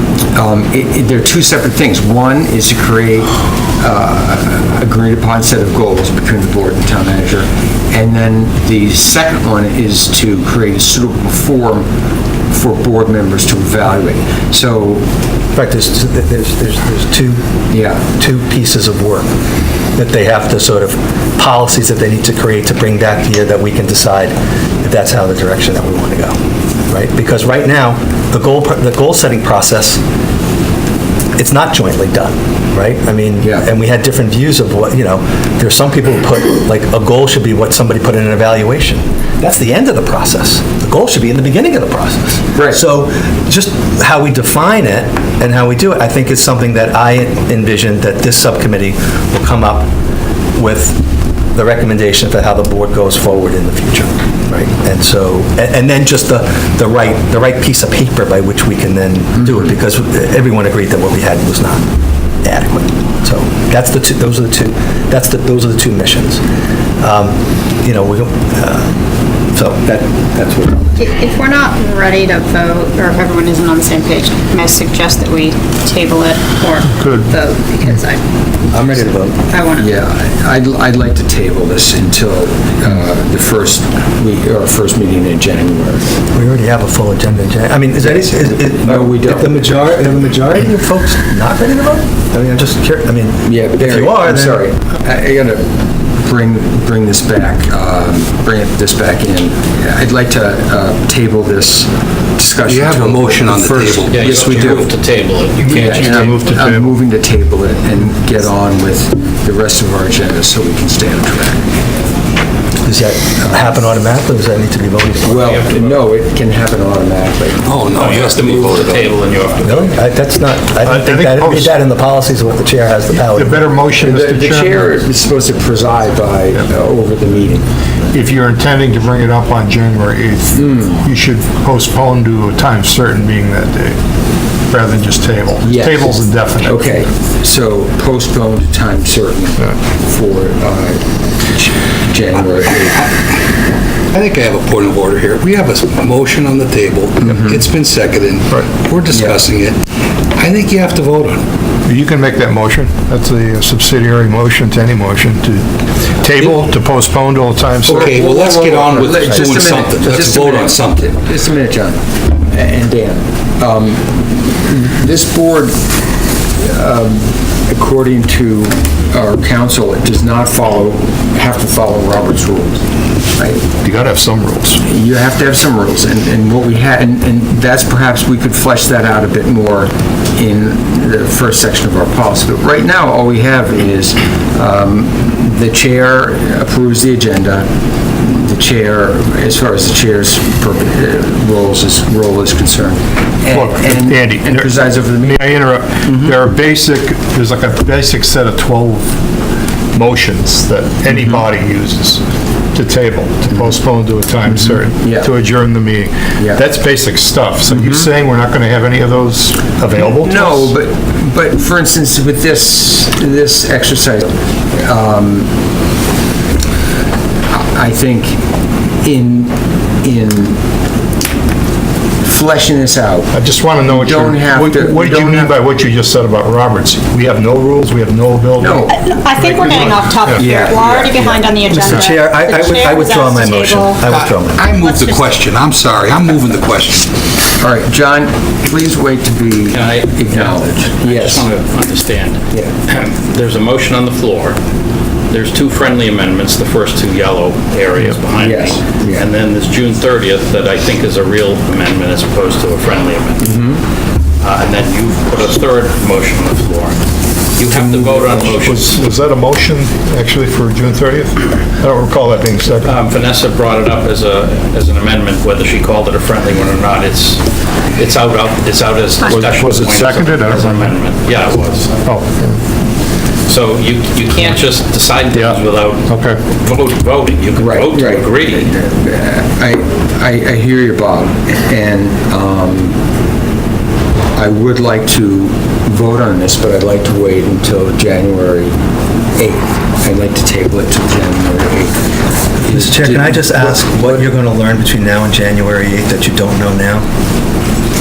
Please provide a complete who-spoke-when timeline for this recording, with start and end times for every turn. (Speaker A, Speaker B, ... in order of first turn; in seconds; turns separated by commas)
Speaker A: 0.3-11.9, Speaker A: 12.5-15.0, Speaker B: 15.5-17.4, Speaker A: 17.7-18.0, Speaker B: 18.1-19.3, Speaker B: 19.9-26.4, Speaker B: 26.9-30.0, Speaker B: 31.4-49.9, Speaker A: 42.5-42.8, Speaker B: 50.5-51.0, Speaker B: 51.5-61.8, Speaker B: 62.4-66.4, Speaker B: 67.0-68.9, Speaker B: 69.5-71.1, Speaker C: 71.0-78.2, Speaker D: 76.9-77.3, Speaker B: 78.7-79.4, Speaker C: 79.5-79.9, Speaker A: 79.7-86.1, Speaker B: 86.3-94.6, Speaker A: 88.0-90.2, Speaker A: 93.4-104.9, Speaker E: 102.6-104.9, Speaker F: 104.1-106.3, Speaker D: 105.6-107.0, Speaker A: 105.7-111.7, Speaker B: 112.8-115.6, Speaker A: 113.4-113.7, Speaker A: 115.2-119.0, Speaker F: 115.4-116.0, Speaker E: 117.6-119.1, Speaker F: 117.9-120.0, Speaker B: 119.6-123.6, Speaker D: 120.8-121.8, Speaker D: 123.1-124.9, Speaker A: 124.0-127.7, Speaker D: 128.1-134.0, Speaker A: 130.5-131.0, Speaker D: 134.6-136.9, Speaker A: 135.6-143.0, Speaker E: 144.1-149.8, Speaker A: 147.2-147.6, Speaker A: 149.1-149.4, Speaker E: 150.3-151.4, Speaker D: 151.8-158.2, Speaker A: 157.8-165.8, Speaker E: 157.9-161.1, Speaker A: 166.6-172.8, Speaker A: 173.3-173.6, Speaker D: 173.8-174.8, Speaker A: 174.8-195.4, Speaker D: 193.5-199.1, Speaker A: 196.0-196.3, Speaker D: 199.9-202.2, Speaker A: 201.1-201.4, Speaker D: 202.7-210.7, Speaker A: 204.5-205.3, Speaker A: 207.8-208.0, Speaker A: 210.0-215.5, Speaker A: 217.5-218.4, Speaker A: 219.0-220.6, Speaker A: 222.2-223.3, Speaker D: 223.3-230.4, Speaker A: 223.8-225.5, Speaker A: 228.6-229.0, Speaker C: 228.9-234.0, Speaker A: 230.3-231.4, Speaker B: 231.6-234.7, Speaker E: 234.0-237.1, Speaker C: 234.8-235.2, Speaker A: 237.6-241.5, Speaker F: 239.7-244.6, Speaker F: 245.3-253.6, Speaker A: 248.3-249.3, Speaker A: 253.4-253.8, Speaker F: 254.4-257.0, Speaker F: 257.6-259.0, Speaker D: 257.7-263.0, Speaker F: 262.8-267.4, Speaker F: 267.9-272.0, Speaker D: 269.2-270.9, Speaker D: 272.0-272.6, Speaker F: 273.5-278.7, Speaker D: 275.3-276.4, Speaker A: 277.5-283.0, Speaker A: 284.3-288.8, Speaker A: 289.3-292.0, Speaker A: 292.6-294.2, Speaker B: 292.7-297.1